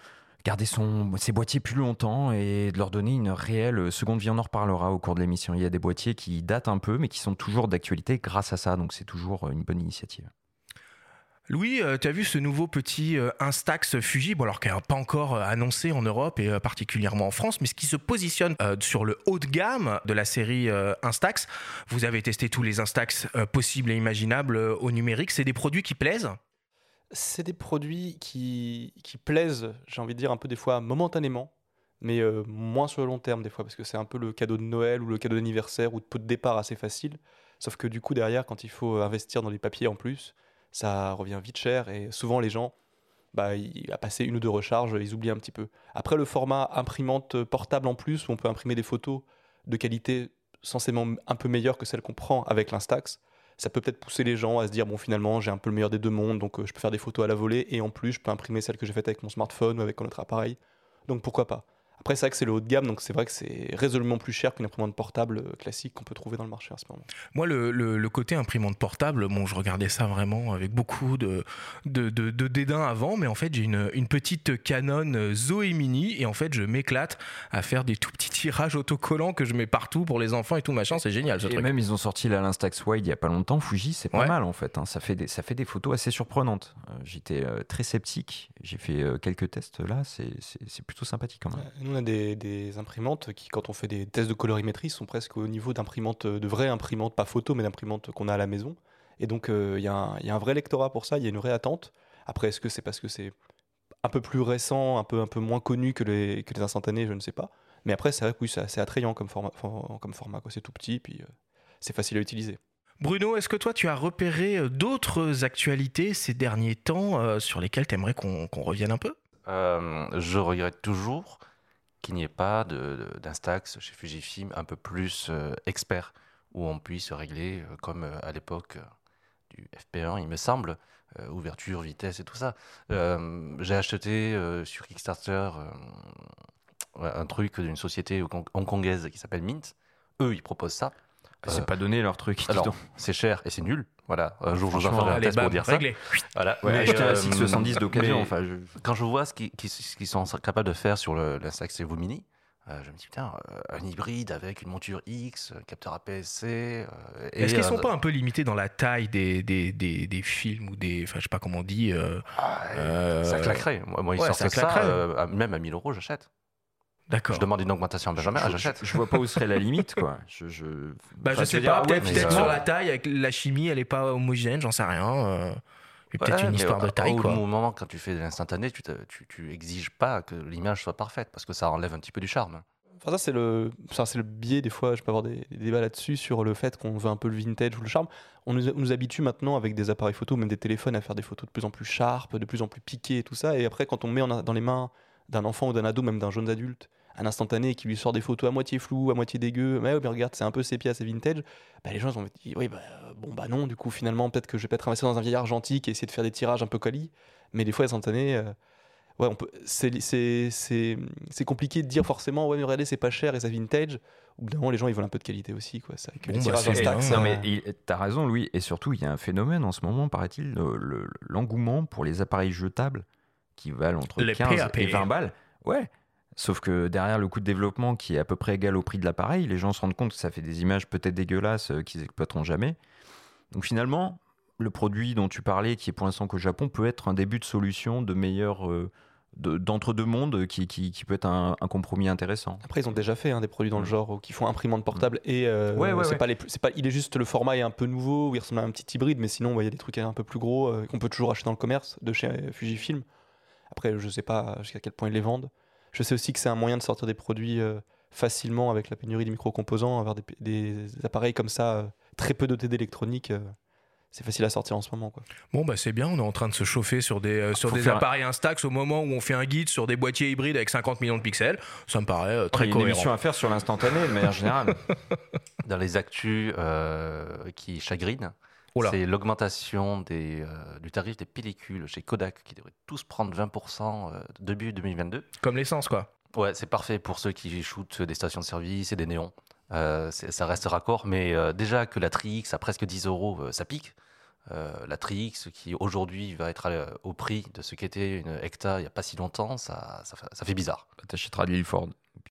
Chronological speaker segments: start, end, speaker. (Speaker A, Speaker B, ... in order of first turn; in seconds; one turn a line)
Speaker A: 0.4-10.3
Speaker B: 11.5-26.4
Speaker C: 27.1-42.7
Speaker C: 43.3-67.1
Speaker B: 67.3-81.7
Speaker A: 81.4-91.7
Speaker C: 91.5-103.3
Speaker C: 104.0-111.3
Speaker C: 111.8-112.6
Speaker B: 113.0-119.2
Speaker D: 119.5-121.4
Speaker D: 122.0-128.8
Speaker D: 129.5-136.3
Speaker D: 136.9-141.7
Speaker A: 141.4-142.8
Speaker D: 142.5-157.9
Speaker A: 144.7-145.2
Speaker B: 145.0-146.0
Speaker A: 146.6-148.8
Speaker B: 157.4-163.6
Speaker D: 162.3-166.3
Speaker B: 164.2-165.0
Speaker B: 167.1-167.5
Speaker D: 167.3-168.8
Speaker A: 168.2-172.6
Speaker B: 171.2-175.6
Speaker D: 172.0-172.6
Speaker B: 176.1-177.4
Speaker D: 176.1-182.6
Speaker C: 183.0-208.5
Speaker C: 209.2-217.4
Speaker B: 216.2-217.2
Speaker A: 216.7-223.0
Speaker A: 223.6-232.8
Speaker B: 224.2-225.1
Speaker A: 233.5-242.6
Speaker C: 242.6-253.0
Speaker A: 245.7-246.2
Speaker C: 253.7-263.5
Speaker C: 264.1-265.2
Speaker B: 265.5-273.1
Speaker A: 267.6-268.1
Speaker A: 272.5-274.9
Speaker D: 275.6-285.3
Speaker B: 285.4-286.1
Speaker D: 286.3-293.9
Speaker D: 294.5-300.8
Speaker A: 301.0-302.0